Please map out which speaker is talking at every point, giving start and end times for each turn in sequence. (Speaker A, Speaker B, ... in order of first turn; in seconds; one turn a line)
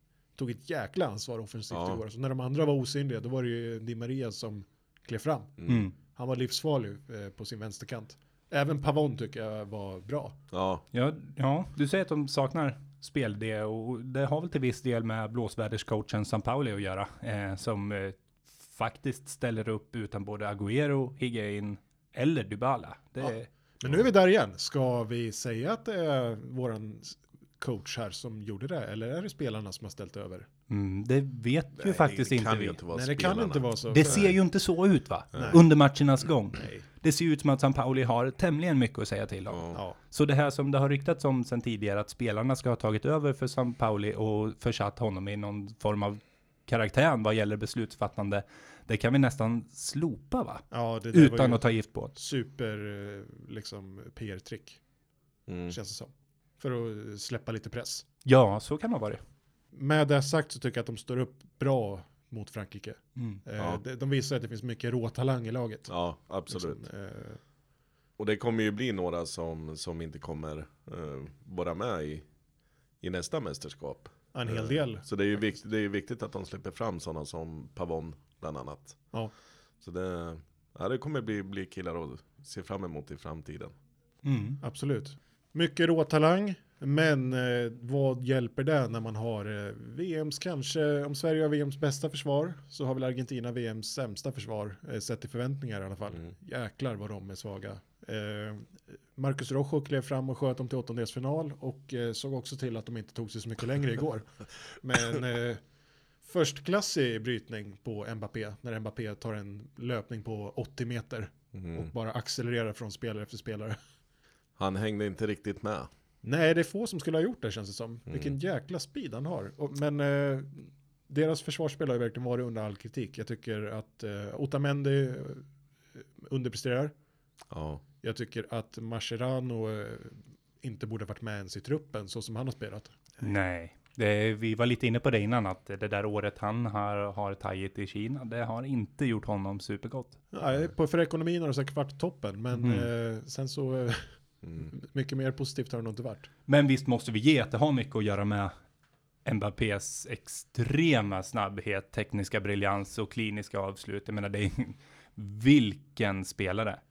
Speaker A: 0.4-10.4
Speaker B: 1.7-2.0
Speaker B: 5.6-5.9
Speaker C: 5.7-5.9
Speaker B: 10.5-10.8
Speaker C: 10.9-23.5
Speaker A: 23.2-30.5
Speaker C: 30.7-32.8
Speaker B: 31.8-34.3
Speaker A: 32.9-34.3
Speaker C: 33.9-52.1
Speaker A: 35.4-35.6
Speaker A: 36.6-36.8
Speaker B: 39.5-39.8
Speaker A: 50.7-54.8
Speaker B: 55.5-55.8
Speaker A: 55.7-58.0
Speaker C: 58.2-59.2
Speaker A: 59.7-65.9
Speaker B: 65.9-66.8
Speaker A: 66.5-67.4
Speaker B: 68.2-72.2
Speaker B: 73.0-79.0
Speaker A: 74.3-75.1
Speaker B: 79.8-83.7
Speaker C: 84.2-84.6
Speaker A: 84.6-105.6
Speaker A: 106.2-113.8
Speaker B: 111.5-111.9
Speaker B: 114.6-115.9
Speaker A: 116.2-126.9
Speaker B: 118.1-118.3
Speaker B: 127.5-127.8
Speaker A: 128.0-133.0
Speaker C: 133.2-140.2
Speaker A: 140.3-146.3
Speaker C: 142.6-142.9
Speaker C: 146.5-148.5
Speaker C: 149.2-156.8